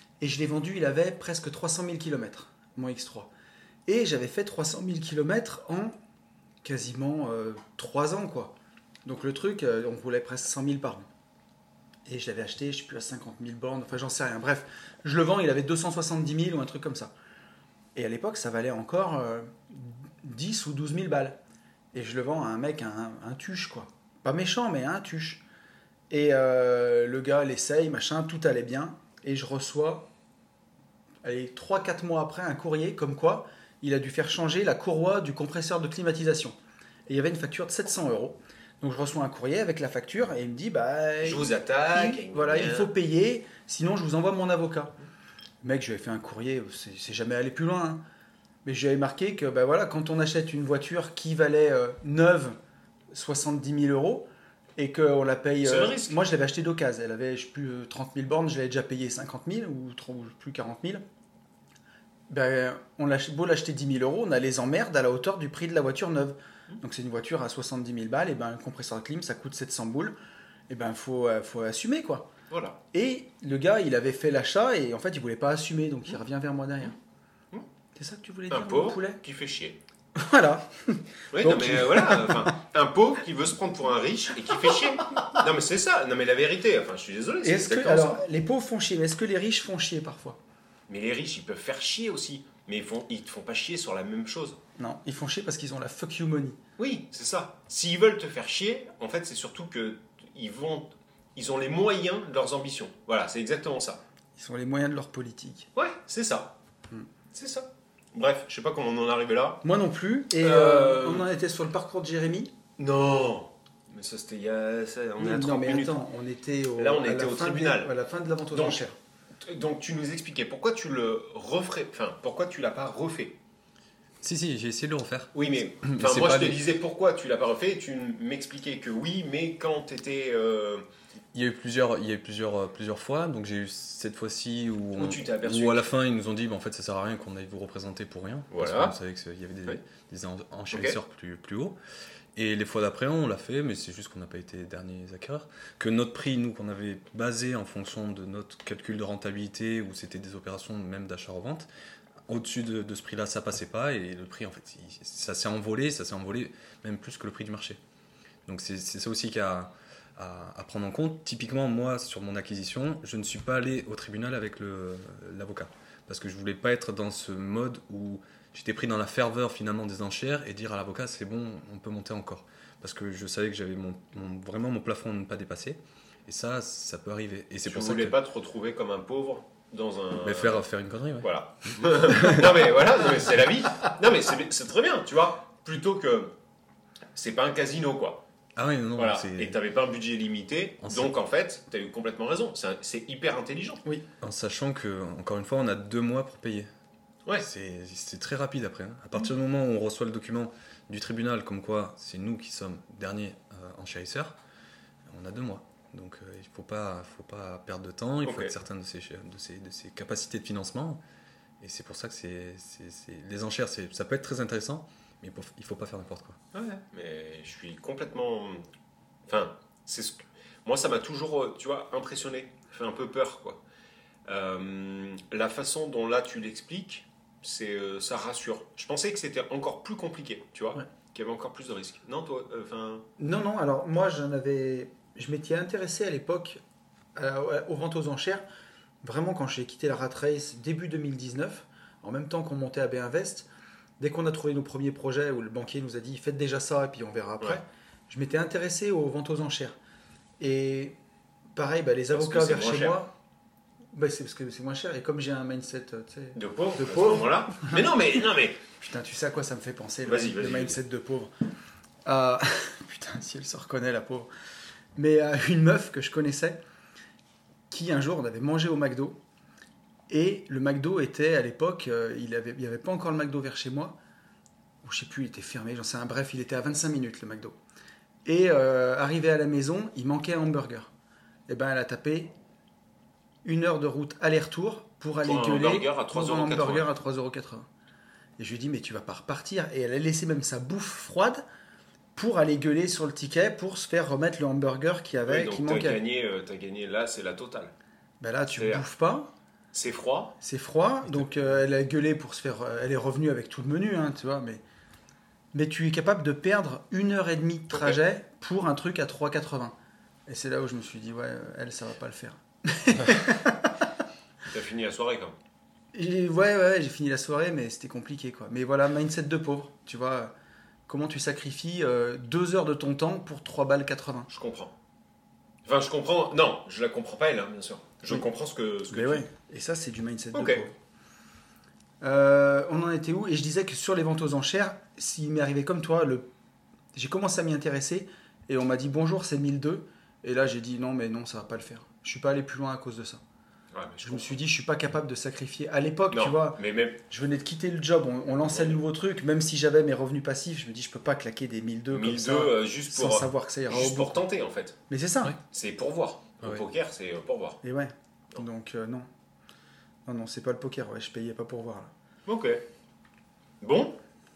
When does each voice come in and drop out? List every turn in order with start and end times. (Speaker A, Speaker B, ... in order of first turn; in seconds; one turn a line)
Speaker A: 0.2-3.3
Speaker A: 3.9-6.0
Speaker A: 6.6-11.1
Speaker A: 12.1-17.1
Speaker A: 17.9-21.4
Speaker A: 21.9-25.4
Speaker A: 26.1-30.1
Speaker A: 31.2-36.6
Speaker A: 37.1-44.9
Speaker B: 41.2-42.9
Speaker A: 45.6-48.0
Speaker A: 48.6-52.6
Speaker A: 53.1-61.0
Speaker B: 55.6-56.2
Speaker A: 62.3-70.2
Speaker A: 70.7-72.3
Speaker B: 72.5-72.8
Speaker A: 72.9-77.0
Speaker A: 78.0-79.2
Speaker B: 78.5-79.8
Speaker A: 80.2-82.5
Speaker B: 81.3-88.2
Speaker A: 87.4-90.4
Speaker B: 90.9-94.6
Speaker A: 94.8-96.6
Speaker B: 96.8-104.0
Speaker A: 104.4-105.7
Speaker B: 105.8-106.5
Speaker B: 107.3-109.6
Speaker A: 109.6-112.5
Speaker B: 110.4-111.3
Speaker B: 112.8-116.0
Speaker A: 115.2-118.9
Speaker B: 116.8-117.9
Speaker B: 118.5-118.8
Speaker B: 119.4-123.4
Speaker C: 124.2-126.6
Speaker B: 125.3-130.8
Speaker C: 131.3-141.8
Speaker B: 135.0-135.9
Speaker B: 138.5-138.9
Speaker B: 140.7-141.0
Speaker C: 142.3-151.7
Speaker C: 152.3-157.8
Speaker C: 158.5-178.2
Speaker B: 177.7-180.6
Speaker C: 180.2-181.3
Speaker B: 181.2-186.3
Speaker B: 187.2-188.2
Speaker C: 188.6-189.6
Speaker B: 189.0-193.8
Speaker C: 190.8-191.1
Speaker C: 194.2-196.7
Speaker C: 197.4-204.4
Speaker C: 205.1-211.0
Speaker B: 208.2-208.5
Speaker C: 211.6-216.4
Speaker B: 216.5-218.6
Speaker B: 219.3-223.6
Speaker B: 224.3-233.1
Speaker A: 233.2-236.6
Speaker A: 237.2-238.4
Speaker A: 239.0-243.5
Speaker A: 244.0-249.8
Speaker A: 250.4-251.0
Speaker A: 251.6-253.1
Speaker B: 252.1-253.0
Speaker A: 253.9-257.9
Speaker B: 256.4-258.6
Speaker A: 258.8-261.3
Speaker B: 260.1-260.8
Speaker A: 262.1-264.3
Speaker A: 265.0-266.6
Speaker A: 267.7-269.2
Speaker A: 270.1-274.0
Speaker A: 274.8-277.6
Speaker A: 278.3-280.9
Speaker A: 281.5-282.3
Speaker A: 283.4-287.7
Speaker B: 285.2-286.9
Speaker A: 288.4-291.4
Speaker A: 292.2-296.0
Speaker B: 295.3-297.7
Speaker A: 298.2-299.3
Speaker B: 298.6-298.9
Speaker B: 299.7-300.4
Speaker A: 300.4-304.6
Speaker A: 305.5-309.8
Speaker B: 307.7-308.0
Speaker A: 310.3-313.9
Speaker B: 314.5-315.4
Speaker A: 315.9-320.3
Speaker A: 320.9-324.3
Speaker B: 324.3-324.7
Speaker B: 325.6-329.2
Speaker A: 328.9-330.7
Speaker B: 330.3-330.6
Speaker A: 332.0-336.3
Speaker A: 336.9-343.2
Speaker B: 343.7-344.4
Speaker A: 344.0-354.2
Speaker B: 346.1-347.0
Speaker B: 348.5-348.8
Speaker B: 351.9-354.8
Speaker A: 354.9-355.4
Speaker B: 355.4-357.6
Speaker A: 357.6-359.1
Speaker A: 360.1-361.9
Speaker B: 362.3-362.6
Speaker B: 363.6-364.0